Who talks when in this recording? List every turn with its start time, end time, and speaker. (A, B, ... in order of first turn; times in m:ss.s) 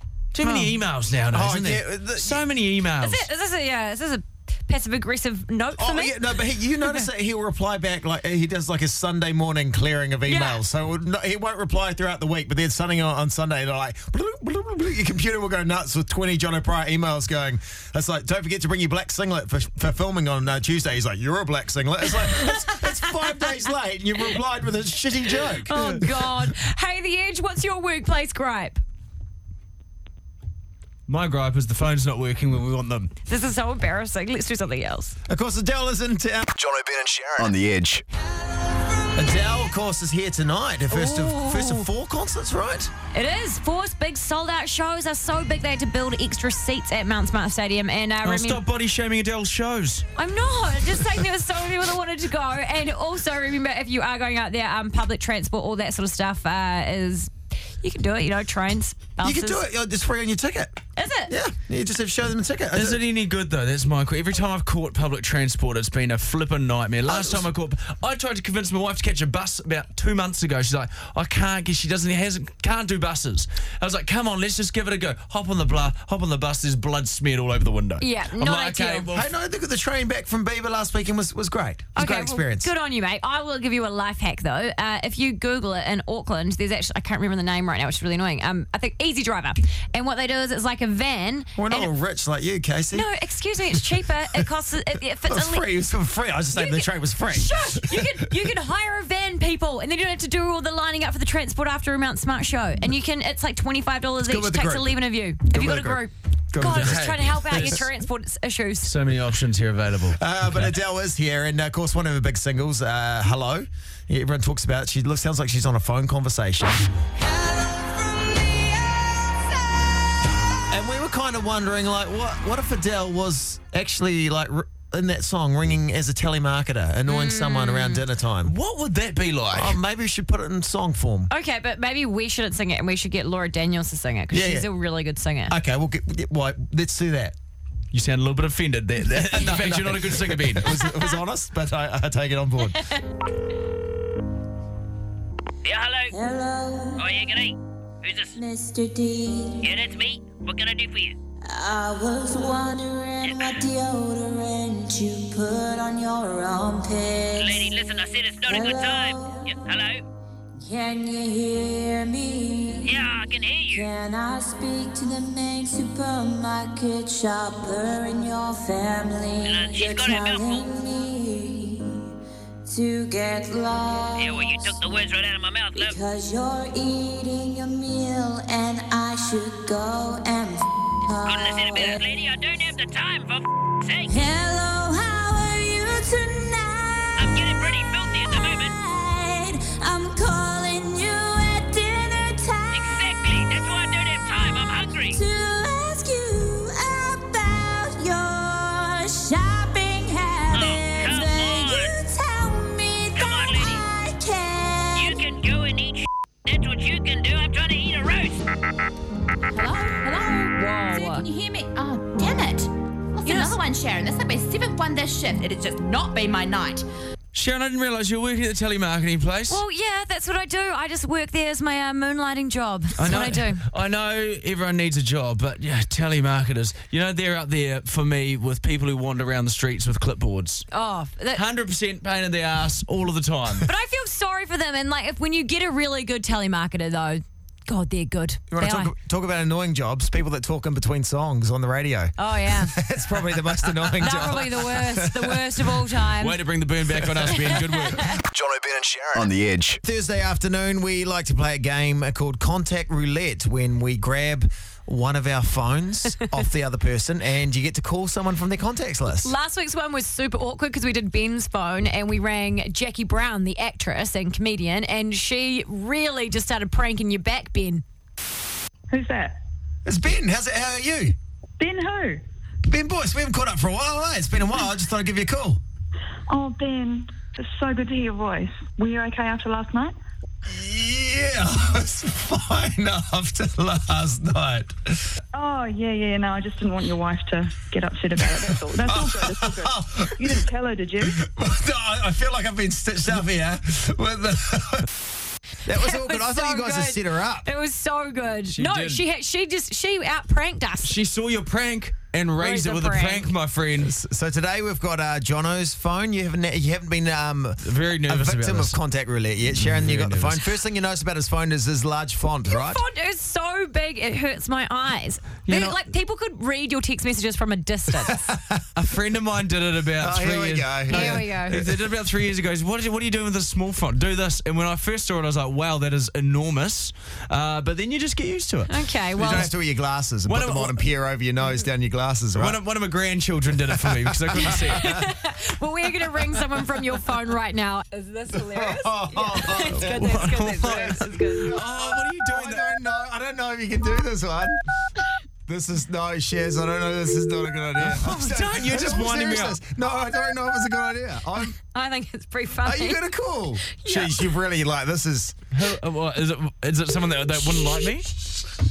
0:00.3-0:03.3 A
0:00.4-0:00.7 B
0:01.3-0:02.4 B
0:03.0-0:06.2 C
0:05.8-0:26.5 B
0:10.2-0:10.6 C
0:22.1-0:23.3 C
0:25.7-0:28.8 C
0:31.1-0:33.1 A
0:33.3-0:35.2 C
0:35.3-0:36.5 B
0:36.5-0:38.0 D
0:39.1-0:42.9 B
0:40.9-0:41.9 C
0:43.1-0:48.6 C
0:48.2-0:50.0 A
0:50.2-0:59.6 C
0:59.2-1:03.0 B
1:01.0-1:01.3 C
1:02.7-1:19.3 A
1:07.1-1:07.5 B
1:18.0-1:19.1 C
1:19.1-1:22.7 B
1:22.0-1:31.9 C
1:31.6-1:33.1 B
1:32.9-1:35.6 C
1:35.2-1:38.3 B
1:36.5-1:48.9 C
1:44.2-1:47.8 B
1:46.6-1:47.9 A
1:48.8-1:50.7 A
1:50.2-1:56.8 B
1:57.4-1:58.7 E
2:00.7-2:08.5 B
2:07.1-2:08.0 C
2:08.4-2:09.8 A
2:09.5-2:11.3 B
2:11.3-2:15.5 C
2:14.3-2:14.7 B
2:15.5-2:17.3 B
2:17.9-2:20.7 A
2:19.2-2:22.8 B
2:25.6-2:26.1 F
2:26.1-2:27.0 E
2:27.0-2:28.4 F
2:28.3-2:29.7 E
2:29.6-2:31.2 F
2:31.4-2:37.7 E
2:33.2-2:33.6 F
2:37.4-2:40.0 F
2:38.4-2:39.6 E
2:40.6-2:43.0 E
2:42.8-2:43.9 F
2:43.7-2:52.0 E
2:49.4-2:50.7 F
2:52.6-2:54.8 E
2:54.1-2:56.0 F
2:55.7-3:02.0 E
3:01.2-3:04.2 F
3:04.1-3:13.0 E
3:07.2-3:08.7 F
3:12.7-3:15.2 F
3:15.1-3:25.2 E
3:20.5-3:22.0 F
3:23.1-3:23.8 F
3:24.9-3:28.4 F
3:29.5-3:36.8 G
3:30.5-3:31.2 C
3:33.2-3:33.6 C
3:37.3-3:39.6 A
3:39.5-3:43.6 C
3:43.0-3:50.7 A
3:50.7-3:51.4 C
3:51.3-3:53.7 A
3:53.6-3:58.9 C
3:58.5-4:05.8 B
4:02.2-4:02.8 C
4:04.0-4:06.4 C
4:06.2-4:08.1 A
4:07.0-4:07.4 B
4:07.3-4:08.2 C
4:08.3-4:09.8 D
4:09.8-4:19.3 B
4:19.2-4:27.8 C
4:28.9-4:29.4 H
4:29.8-4:31.1 B
4:31.6-4:32.2 H
4:32.6-4:35.6 B
4:36.3-4:40.0 H
4:40.4-4:45.2 B
4:45.3-4:51.2 H
4:48.3-4:50.4 B
4:51.0-4:54.9 B
4:55.6-4:57.5 B
4:55.7-5:00.9 C
4:58.5-4:59.0 A
5:00.8-5:03.9 A
5:02.4-5:03.3 C
5:03.8-5:12.8 B
5:07.6-5:08.8 A
5:09.5-5:10.4 A
5:12.5-5:18.3 C
5:15.4-5:15.8 A
5:18.0-5:18.6 B
5:18.7-5:29.5 A
5:20.0-5:21.7 B
5:20.9-5:21.6 C
5:28.7-5:29.5 C
5:29.2-5:32.6 B
5:30.3-5:30.8 A
5:32.4-5:35.0 A
5:33.9-5:34.8 B
5:34.5-5:41.6 C
5:38.3-5:44.6 B
5:39.8-5:42.8 A
5:45.5-5:51.5 B
5:47.8-5:49.6 A
5:51.6-5:53.0 C
5:52.6-5:55.4 B
5:53.7-5:54.1 C
5:55.5-5:58.1 A